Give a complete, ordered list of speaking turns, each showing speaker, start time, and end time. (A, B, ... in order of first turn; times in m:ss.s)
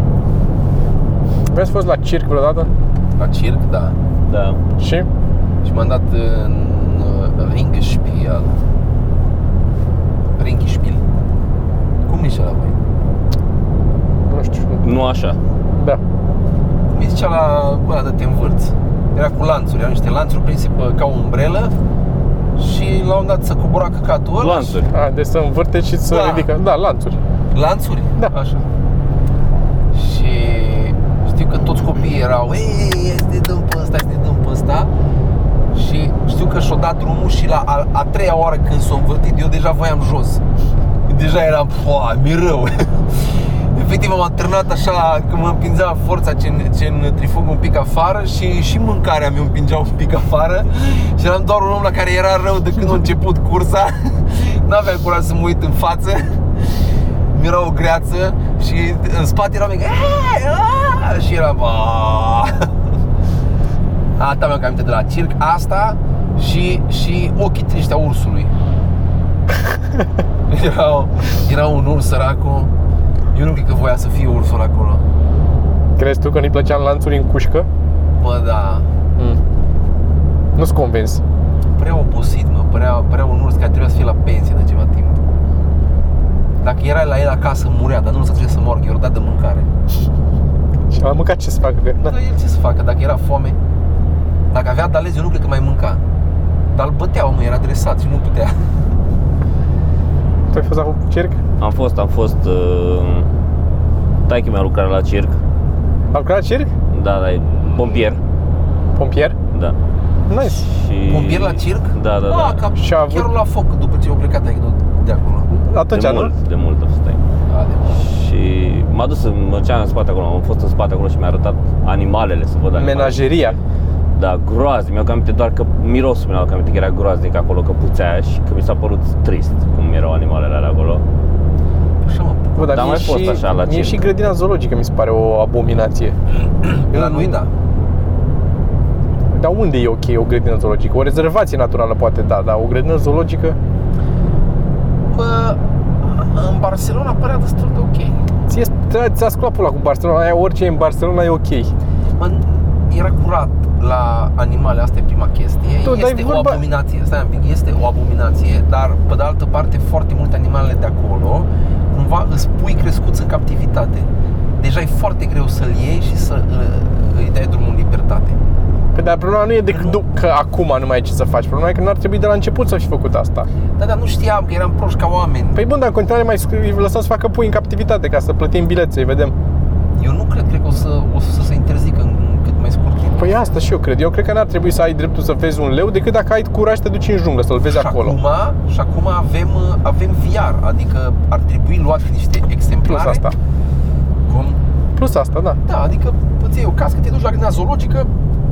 0:01.5-0:02.7 A
0:03.2-0:04.0 B
0:04.3-0:04.6 C
0:04.8-0:05.1 A
0:05.6-0:08.6 B
0:10.4-0:11.0 B
0:12.1-0:12.8 B
0:14.3-0:14.8 A
0:14.8-0:15.4 C
0:16.9-0:21.7 B
0:22.6-0:24.8 B
0:24.4-0:24.9 C
0:24.9-0:27.2 A
0:26.1-0:26.5 B
0:27.5-0:28.6 B
0:29.9-0:34.9 B
0:35.7-0:40.4 B
0:41.1-0:56.5 B
0:57.3-1:02.7 B
1:04.2-1:08.5 B
1:10.5-1:12.7 B
1:13.3-1:15.0 B
1:16.0-1:17.7 A
1:18.2-1:18.9 B
1:20.6-1:21.2 A
1:21.8-1:25.2 B
1:26.6-1:29.7 B
1:30.9-1:32.1 A
1:32.0-1:33.6 B
1:34.5-1:36.0 B
1:36.7-1:38.7 B
1:40.5-1:41.4 A
1:41.6-1:43.3 C
1:44.3-1:45.4 C
1:46.1-1:46.7 A
1:46.9-1:48.2 C
1:48.9-1:49.4 A
1:50.3-1:50.6 A
1:50.5-1:52.6 C
1:51.0-1:55.5 B
1:52.8-1:53.3 A
1:55.5-1:56.3 A
1:55.9-1:57.2 C
1:57.5-1:58.0 B
1:57.9-2:03.5 C
2:02.7-2:03.6 A
2:04.1-2:11.0 C
2:12.0-2:12.9 B
2:12.6-2:16.2 A
2:12.7-2:14.0 C
2:16.4-2:17.5 B
2:16.9-2:17.4 A
2:19.3-2:23.6 A
2:25.1-2:28.2 B
2:28.5-2:31.7 A
2:32.2-2:44.1 B
2:35.8-2:36.6 A
2:44.6-2:48.4 B
2:48.9-2:53.5 A
2:49.7-2:50.0 B
2:53.8-2:55.6 B
2:55.5-2:59.3 A
3:00.0-3:03.5 B
3:03.2-3:08.2 A
3:07.6-3:13.2 B
3:12.8-3:13.4 A
3:14.3-3:14.6 B
3:15.0-3:15.6 A
3:15.6-3:18.1 B